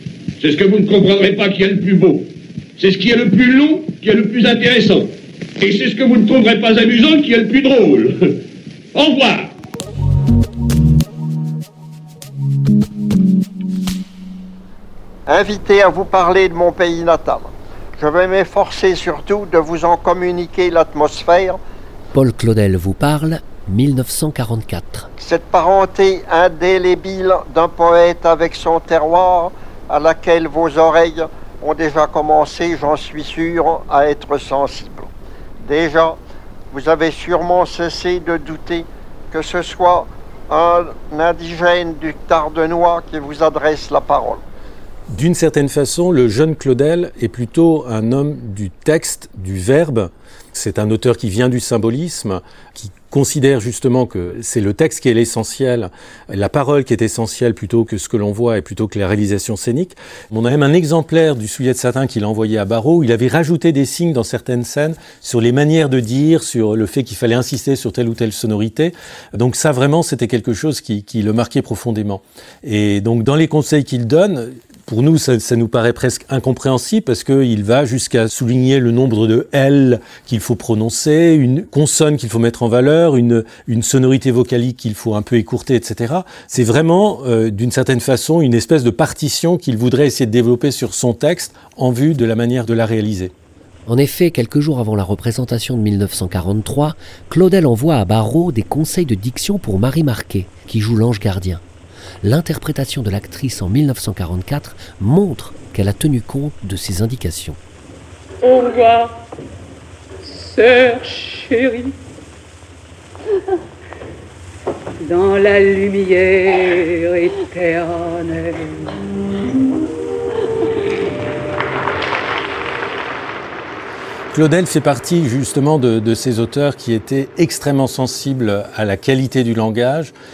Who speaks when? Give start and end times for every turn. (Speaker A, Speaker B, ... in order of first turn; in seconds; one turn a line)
Speaker A: 0.4-8.4
Speaker A: 8.9-9.5
Speaker B: 15.3-21.6
Speaker C: 22.1-25.1
Speaker B: 25.2-35.1
Speaker B: 35.6-36.2
Speaker B: 36.7-44.4
Speaker D: 45.1-93.3
Speaker C: 93.8-101.6
Speaker C: 102.2-107.6
Speaker E: 108.5-109.1
Speaker E: 110.4-111.7
Speaker E: 115.1-116.2
Speaker D: 124.3-130.1